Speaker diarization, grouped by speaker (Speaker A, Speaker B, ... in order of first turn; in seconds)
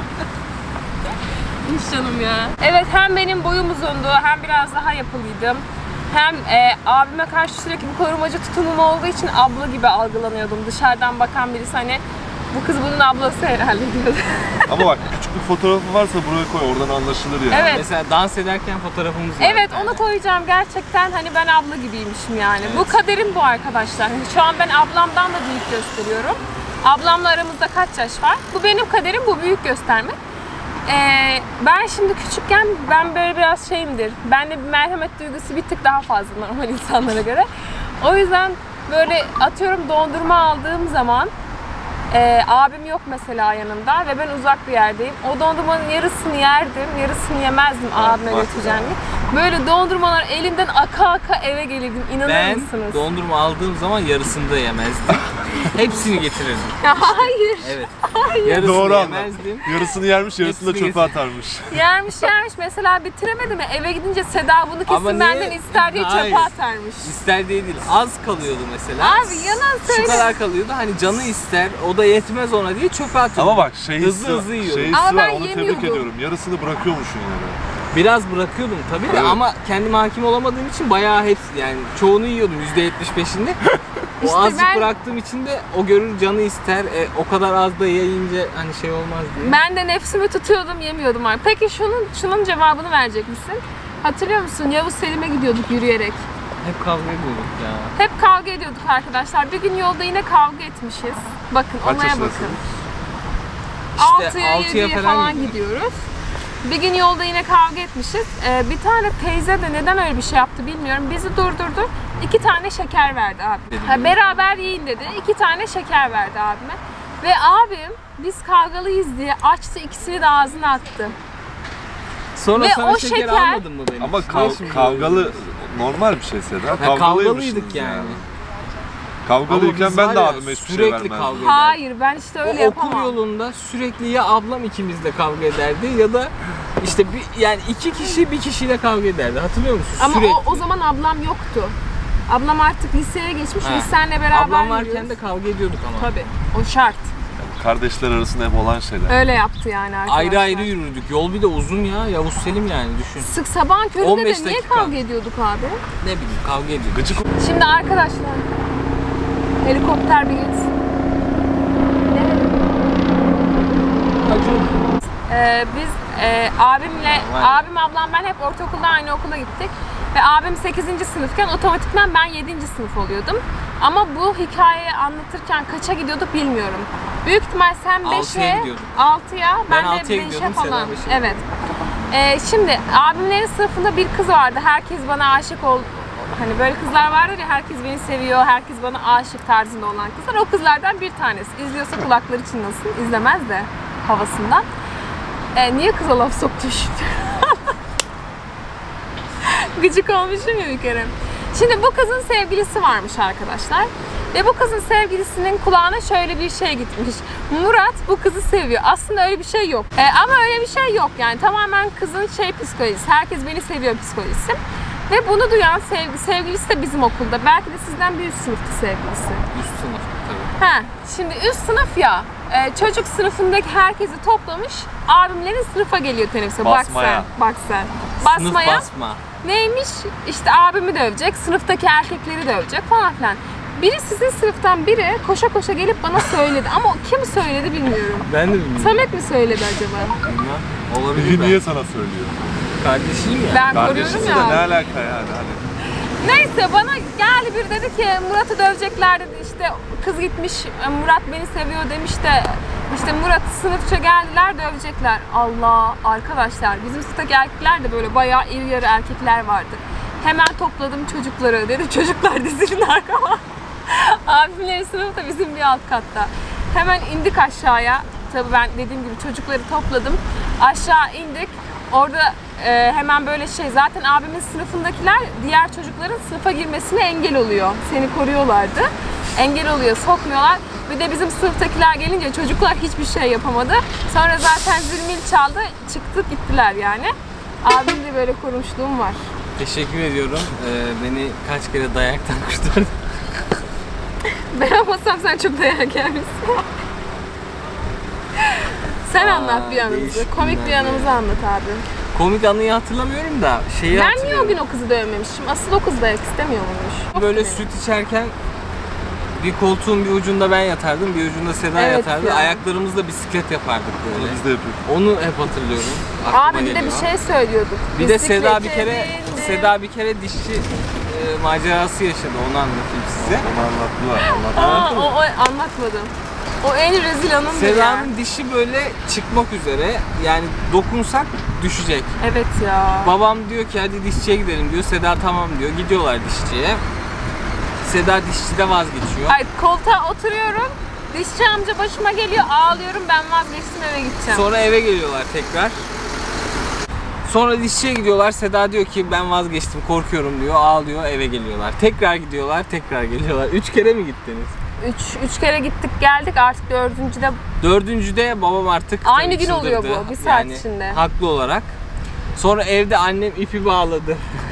Speaker A: 1.6-14.8, 17.5-17.9, 19.4-30.2, 30.9-37.5, 38.0-41.3, 42.1-53.0, 56.8-58.9, 61.7-67.2, 69.0-70.4, 74.9-76.1, 84.2-84.9, 89.4-96.2, 98.0-102.6, 104.0-106.1, 106.6-121.2, 122.5-123.7, 131.3-133.2, 140.0-141.8, 142.3-145.2, 145.9-147.1, 149.1-150.7, 153.2-155.8, 157.4-158.5, 159.6-160.7, 162.1-162.7, 165.3-181.4, 182.1-194.7, 195.6-197.7, 199.4-219.5, 220.6-228.9, 229.4-240.2, 243.5-244.7, 246.2-287.1, 287.6-289.3, 294.5-296.7, 298.4-301.9, 303.9-307.7, 311.8-312.6, 316.3-319.7, 324.2-328.1, 332.2-333.1, 339.3-344.5, 354.8-357.4, 359.0-361.0
Speaker B: 14.7-17.8, 58.6-61.9, 73.3-77.6, 79.1-79.4, 101.8-102.6, 124.0-128.2, 129.2-131.4, 147.4-149.2, 156.9-157.2, 226.6-227.3, 241.1-242.4, 243.7-245.6, 314.1-314.8, 323.2-324.9
Speaker C: 17.7-20.1, 22.6-23.0, 48.0-49.0, 52.2-59.7, 60.4-61.2, 64.9-75.0, 77.9-83.6, 84.2-89.6, 96.6-97.9, 104.0-105.6, 113.7-114.4, 122.4-125.4, 126.8-128.2, 129.5-131.8, 132.4-140.6, 143.6-146.2, 150.1-153.3, 154.0-155.0, 156.0-157.2, 164.2-164.9, 166.9-167.6, 178.0-178.9, 179.7-181.5, 219.5-220.5, 228.2-229.2, 238.3-239.1, 240.2-241.6, 242.8-244.6, 289.6-292.9, 299.2-301.2, 302.1-304.6, 307.1-308.4, 309.4-317.1, 317.9-323.5, 324.5-325.2, 327.5-332.2, 333.0-336.8, 337.8-339.4, 344.3-345.8, 347.2-354.5, 357.6-361.8, 362.4-364.3